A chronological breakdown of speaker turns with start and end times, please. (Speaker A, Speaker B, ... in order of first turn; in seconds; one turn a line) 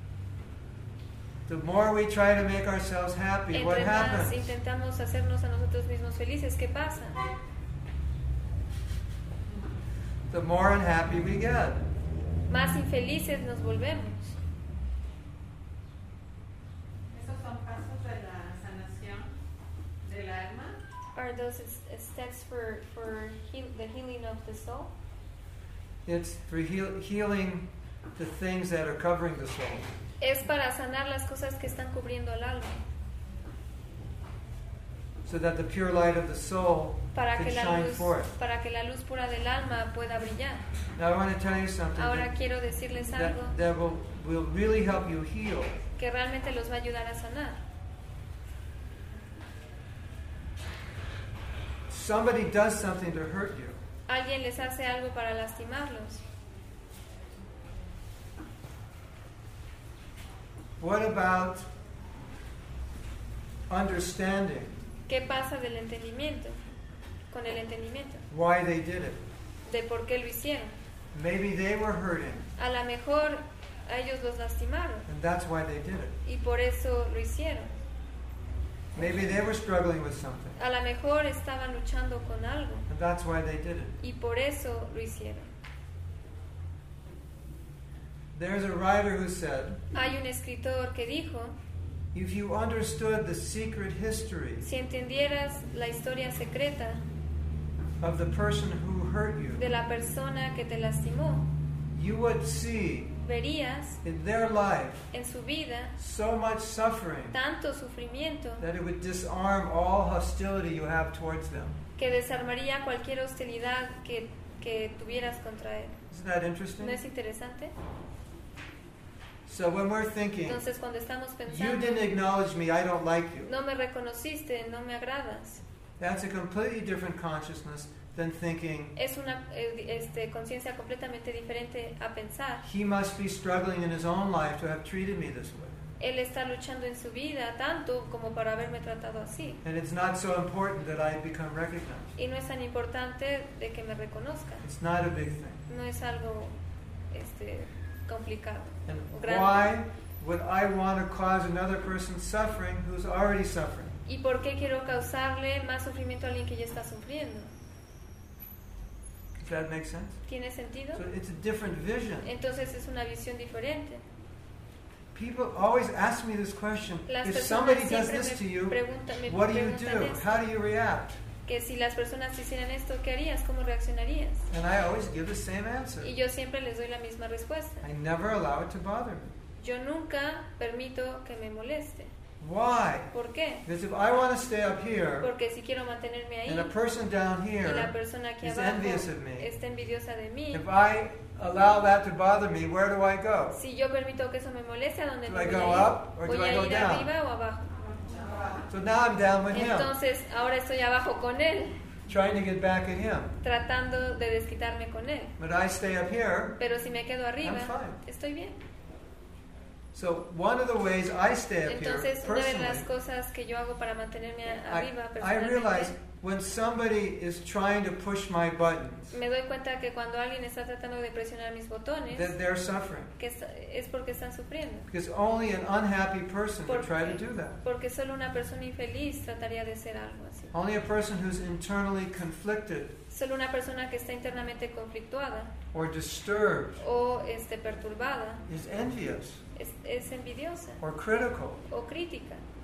Speaker A: 1.5-4.5
Speaker B: 3.5-7.2
Speaker A: 10.3-11.9
Speaker B: 12.5-14.4
Speaker C: 17.1-19.3
Speaker C: 20.0-20.8
Speaker B: 21.1-24.9
Speaker A: 26.1-29.9
Speaker B: 30.2-32.8
Speaker A: 35.2-38.3
Speaker B: 37.1-40.6
Speaker A: 41.0-42.3
Speaker B: 42.0-43.6
Speaker A: 43.1-45.8
Speaker B: 46.0-47.6
Speaker A: 51.9-53.8
Speaker B: 54.1-56.2
Speaker A: 60.8-61.7
Speaker A: 63.7-64.8
Speaker B: 65.1-66.6
Speaker B: 67.3-68.2
Speaker A: 68.3-69.2
Speaker B: 69.7-70.8
Speaker A: 71.1-72.5
Speaker B: 72.6-75.1
Speaker A: 75.1-76.2
Speaker B: 76.2-77.7
Speaker A: 78.9-80.6
Speaker B: 80.6-82.9
Speaker A: 82.9-84.0
Speaker B: 84.0-85.5
Speaker A: 88.3-89.8
Speaker B: 89.9-91.6
Speaker A: 92.1-94.7
Speaker B: 94.6-97.0
Speaker A: 98.0-99.7
Speaker B: 99.6-101.5
Speaker A: 101.9-103.2
Speaker B: 103.2-104.0
Speaker A: 104.0-105.1
Speaker B: 105.1-106.0
Speaker A: 106.0-107.4
Speaker B: 107.3-108.7
Speaker A: 108.6-111.8
Speaker B: 112.0-116.0
Speaker A: 116.1-117.0
Speaker B: 116.8-117.7
Speaker A: 119.5-120.6
Speaker B: 120.5-122.1
Speaker A: 121.5-123.5
Speaker B: 123.5-125.6
Speaker A: 126.0-128.9
Speaker B: 129.0-132.6
Speaker A: 132.6-135.8
Speaker B: 136.0-139.6
Speaker A: 139.6-142.2
Speaker B: 142.2-144.7
Speaker A: 144.6-145.6
Speaker B: 145.7-146.6
Speaker B: 147.1-149.7
Speaker A: 148.9-154.0
Speaker B: 154.1-157.5
Speaker A: 159.4-160.2
Speaker B: 160.3-161.0
Speaker A: 160.9-162.3
Speaker B: 162.2-164.1
Speaker A: 165.2-171.2
Speaker B: 167.1-170.4
Speaker B: 171.4-174.5
Speaker A: 174.5-176.1
Speaker B: 176.0-177.9
Speaker A: 177.8-179.3
Speaker B: 179.6-182.1
Speaker A: 182.4-183.1
Speaker B: 183.1-183.7
Speaker A: 183.7-185.3
Speaker B: 185.2-186.7
Speaker A: 186.5-189.5
Speaker B: 187.6-190.6
Speaker A: 190.5-193.6
Speaker B: 193.5-197.8
Speaker A: 195.3-197.1
Speaker C: 197.8-198.7
Speaker A: 198.7-199.9
Speaker B: 199.5-201.8
Speaker A: 202.1-203.3
Speaker B: 203.4-205.3
Speaker A: 205.4-206.6
Speaker B: 206.6-208.6
Speaker A: 207.4-208.0
Speaker A: 209.9-212.9
Speaker B: 211.7-215.9
Speaker A: 214.7-219.2
Speaker B: 219.1-222.3
Speaker A: 222.1-223.1
Speaker B: 223.2-224.9
Speaker A: 224.9-227.6
Speaker B: 226.7-230.5
Speaker A: 230.5-233.0
Speaker B: 233.1-235.5
Speaker A: 235.7-236.8
Speaker B: 236.8-238.4
Speaker A: 238.5-239.4
Speaker B: 239.6-240.8
Speaker A: 240.8-241.7
Speaker B: 241.7-242.4